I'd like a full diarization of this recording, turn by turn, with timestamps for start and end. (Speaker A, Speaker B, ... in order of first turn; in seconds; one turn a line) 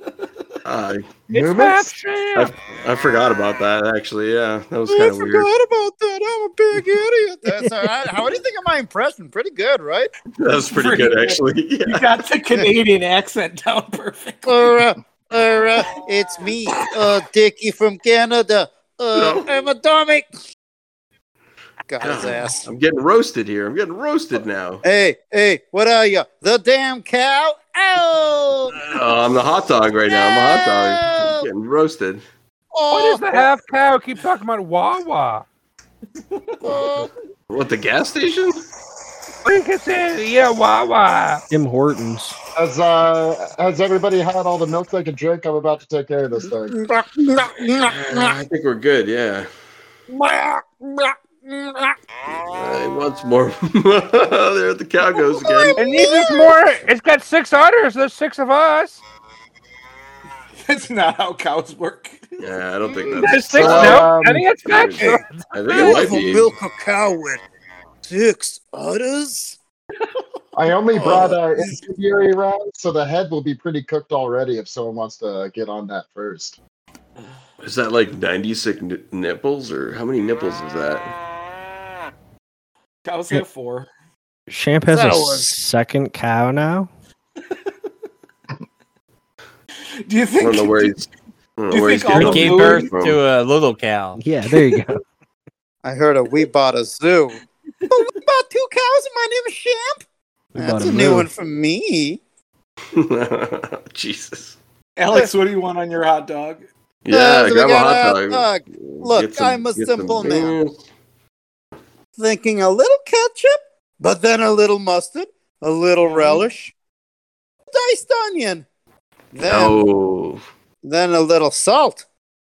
Speaker A: 0.6-1.2
Speaker B: 1.3-2.0
Speaker C: 1.3-2.5
Speaker A: 2.4-5.5
Speaker D: 4.9-10.1
Speaker A: 10.4-12.2
Speaker E: 10.6-14.6
Speaker D: 14.4-20.3
Speaker A: 19.1-19.4
Speaker D: 21.9-22.6
Speaker A: 22.0-24.8
Speaker D: 24.8-28.9
Speaker A: 28.7-32.2
Speaker D: 30.1-31.5
Speaker D: 32.7-33.5
Speaker C: 32.9-35.4
Speaker D: 36.6-37.1
Speaker A: 37.5-38.5
Speaker C: 39.4-41.4
Speaker F: 41.5-42.4
Speaker B: 42.5-46.8
Speaker D: 46.7-48.4
Speaker A: 47.9-49.5
Speaker D: 50.1-51.9
Speaker A: 52.5-55.8
Speaker D: 55.1-56.5
Speaker C: 55.8-59.0
Speaker E: 60.6-62.4
Speaker A: 62.4-64.1
Speaker C: 63.0-66.1
Speaker B: 63.5-64.5
Speaker A: 64.7-66.5
Speaker D: 65.0-67.4
Speaker D: 68.0-69.6
Speaker B: 70.5-76.5
Speaker D: 70.9-71.4
Speaker A: 77.6-81.1
Speaker E: 83.0-83.9
Speaker F: 84.5-86.9
Speaker D: 84.9-85.5
Speaker E: 90.0-90.9
Speaker A: 90.4-93.2
Speaker E: 91.7-92.9
Speaker G: 92.1-94.2
Speaker F: 94.2-95.0
Speaker D: 95.8-100.0
Speaker F: 100.5-101.3
Speaker D: 100.5-102.2
Speaker A: 102.9-104.6
Speaker E: 105.0-106.7
Speaker A: 107.0-110.8
Speaker D: 107.1-110.6
Speaker D: 112.2-116.7
Speaker E: 116.1-116.4
Speaker D: 117.7-118.6
Speaker D: 119.3-119.8
Speaker A: 119.4-120.4
Speaker D: 120.8-122.0